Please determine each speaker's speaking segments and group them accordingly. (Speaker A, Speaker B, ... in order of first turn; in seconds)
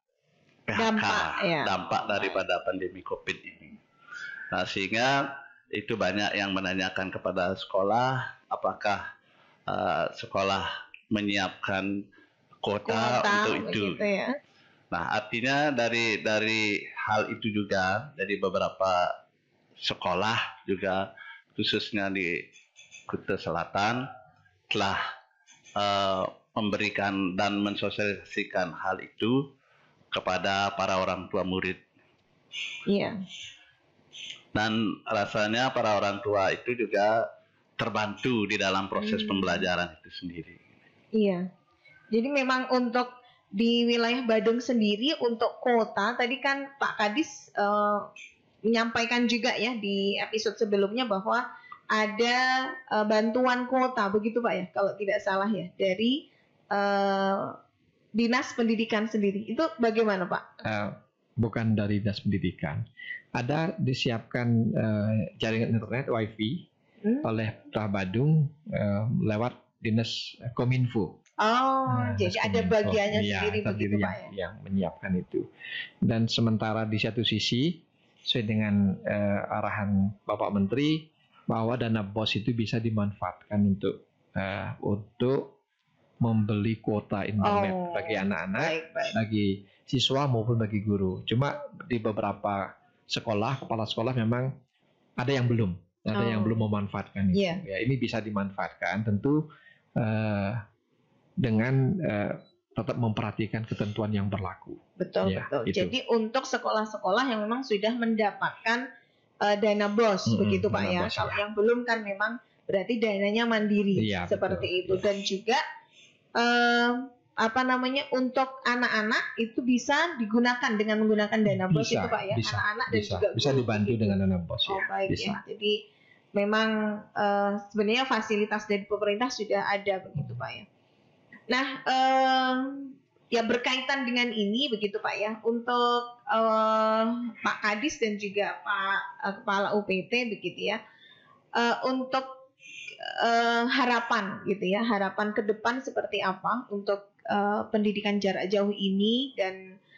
Speaker A: 0.7-3.8, 4.5-9.0, 9.7-11.9, 12.6-14.1, 14.9-19.1, 19.8-21.0, 21.6-22.4, 23.1-24.0, 24.7-25.0, 25.8-29.4, 30.1-31.8, 34.5-37.2, 37.8-40.8
Speaker B: 0.8-1.7, 12.9-14.4, 32.9-33.2, 39.0-39.7, 41.1-41.5, 42.1-48.1, 48.6-57.6, 58.1-60.5, 67.0-67.3, 71.4-74.3, 87.4-89.2, 96.2-96.7, 97.3-97.6, 105.0-108.8, 109.4-115.6, 116.4-125.8, 126.3-130.7, 131.5-140.8, 141.6-142.3, 143.0-149.8
Speaker C: 60.6-62.8, 63.4-66.7, 67.2-71.2, 71.9-75.5, 76.0-85.5, 86.2-94.5, 95.2-99.4, 100.0-100.6, 101.4-105.9, 110.3-111.4, 114.0-115.0, 121.5-125.4